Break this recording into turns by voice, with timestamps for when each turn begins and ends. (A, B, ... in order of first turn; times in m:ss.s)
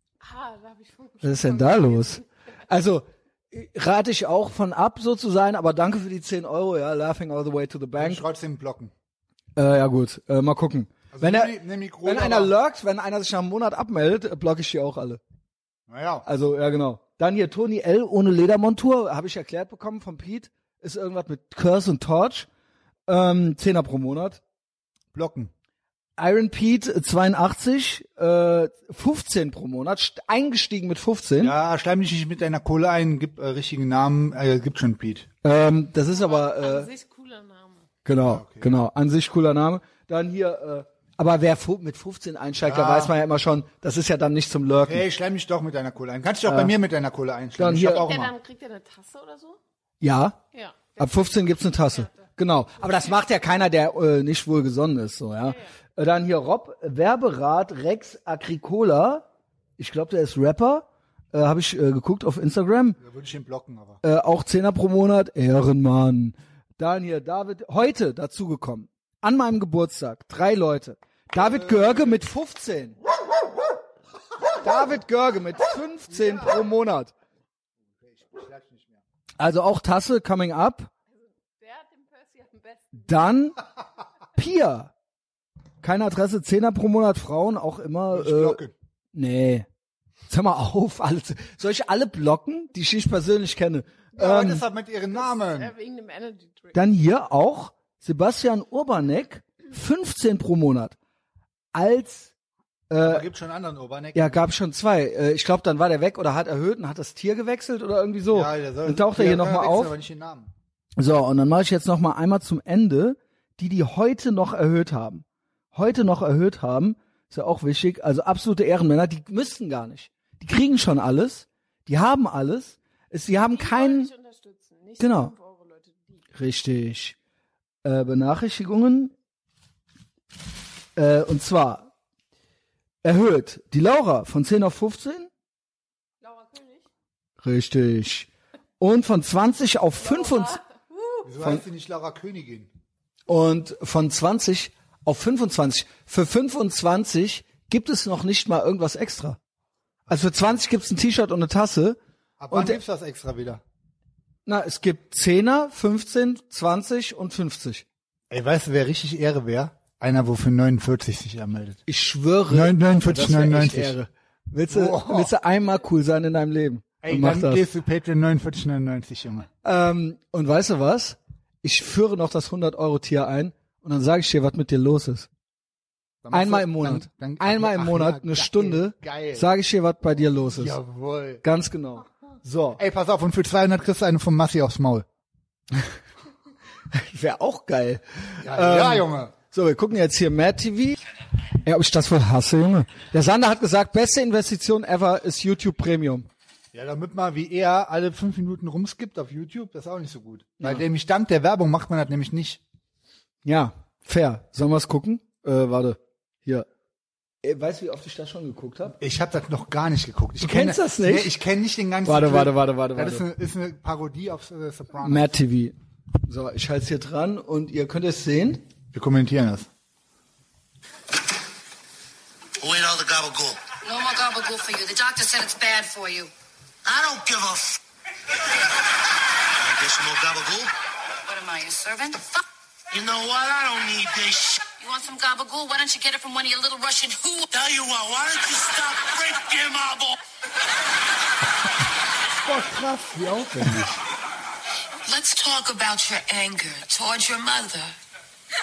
0:00.2-0:02.3 A
0:01.2-0:08.2 B
0:08.0-0:08.9 C
0:09.6-0:15.2 B
0:11.1-0:12.5 C
0:15.9-0:16.2 C
0:16.2-0:22.5 B
0:23.1-0:24.4 B
0:25.1-0:25.5 C
0:26.2-0:31.5 B
0:31.4-0:35.3 C
0:35.4-0:36.9 B
0:36.1-0:37.9 A
0:38.0-0:45.1 B
0:38.2-0:38.7 C
0:42.6-0:43.1 C
0:44.8-0:48.3 C
0:46.5-0:46.8 B
0:47.6-0:48.1 B
0:48.0-0:49.6 A
0:50.0-0:50.4 B
0:50.5-0:52.3 A
0:51.0-0:59.3 B
0:52.8-0:53.2 A
0:59.8-1:03.0 B
1:03.0-1:04.0 C
1:04.0-1:13.0 B
1:11.4-1:12.2 C
1:14.6-1:17.1 B
1:16.1-1:16.6 C
1:18.0-1:19.0 C
1:19.4-1:20.9 B
1:21.2-1:23.4 A
1:23.0-1:23.6 B
1:24.4-1:24.9 B
1:25.8-1:28.6 B
1:28.1-1:28.7 C
1:29.1-1:29.7 B
1:30.3-1:34.6 B
1:34.2-1:35.7 C
1:35.1-1:36.8 A
1:36.8-1:41.0 B
1:41.7-1:42.3 B
1:42.9-1:43.2 B
1:43.0-1:44.4 C
1:44.2-1:49.9 B
1:48.3-1:50.5 C
1:51.0-2:04.1 B
2:03.4-2:06.2 A
2:05.0-2:05.3 B
2:06.4-2:07.2 B
2:07.8-2:09.1 B
2:11.0-2:11.9 B
2:13.0-2:15.3 B
2:16.2-2:16.9 A
2:17.4-2:20.6 B
2:20.0-2:21.3 A
2:21.2-2:22.7 C
2:23.3-2:29.4 B
2:30.1-2:32.0 B
2:32.4-2:33.6 C
2:32.5-2:32.8 B
2:34.5-2:37.8 B
2:38.3-2:41.8 C
2:41.9-2:47.7 B
2:42.5-2:44.0 C
2:44.7-2:45.3 C
2:47.0-2:49.5 C
2:49.6-2:55.3 B
2:56.2-2:59.5 C
2:56.3-3:00.8 B
3:00.3-3:01.4 C
3:01.4-3:02.8 B
3:02.8-3:05.1 C
3:06.9-3:11.0 B
3:08.4-3:09.3 C
3:11.6-3:16.3 B
3:16.7-3:22.6 C
3:23.4-3:26.7 B
3:27.4-3:29.0 B
3:29.0-3:35.3 C
3:30.4-3:31.3 B
3:32.0-3:33.3 B
3:35.0-3:38.7 B
3:38.9-3:39.7 C
3:42.6-3:43.6 D
3:43.8-3:46.3 E
3:46.8-3:47.8 D
3:49.6-3:50.7 D
3:51.3-3:52.4 E
3:52.9-3:54.6 D
3:54.8-3:57.5 E
3:57.5-4:00.2 D
4:02.5-4:03.9 B
4:03.6-4:03.9 C
4:05.0-4:08.0 E